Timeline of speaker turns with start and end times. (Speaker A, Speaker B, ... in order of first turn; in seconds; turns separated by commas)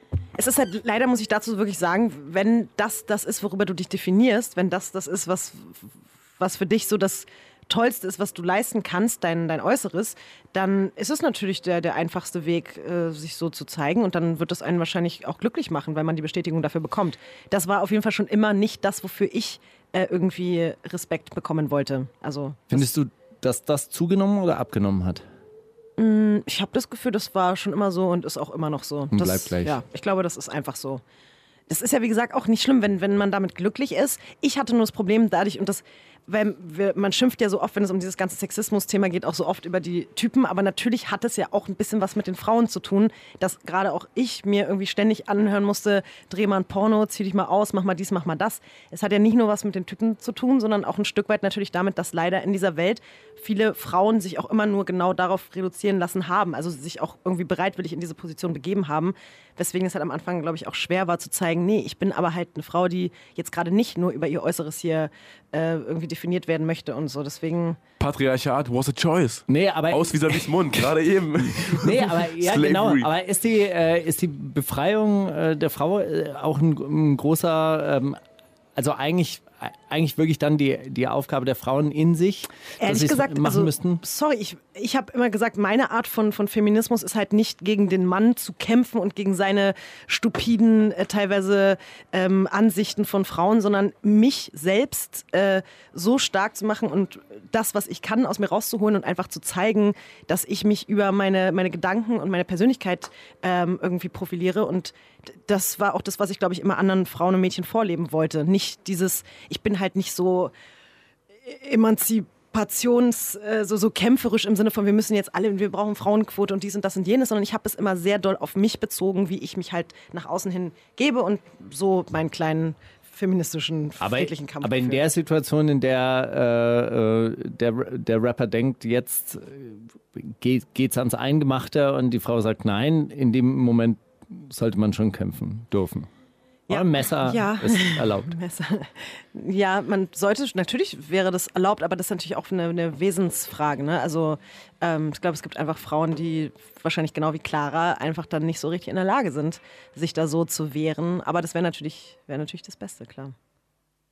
Speaker A: 0.4-22.9, Speaker B: 22.7-25.2, Speaker A: 26.0-31.0, Speaker B: 29.1-29.8, Speaker A: 31.7-67.8, Speaker C: 68.0-73.1, Speaker B: 69.5-70.9, Speaker B: 71.5-78.2, Speaker B: 78.8-84.0, Speaker A: 82.8-105.0, Speaker A: 105.5-110.5, Speaker A: 111.5-125.0, Speaker B: 124.0-136.1, Speaker A: 136.7-153.3, Speaker B: 136.7-138.3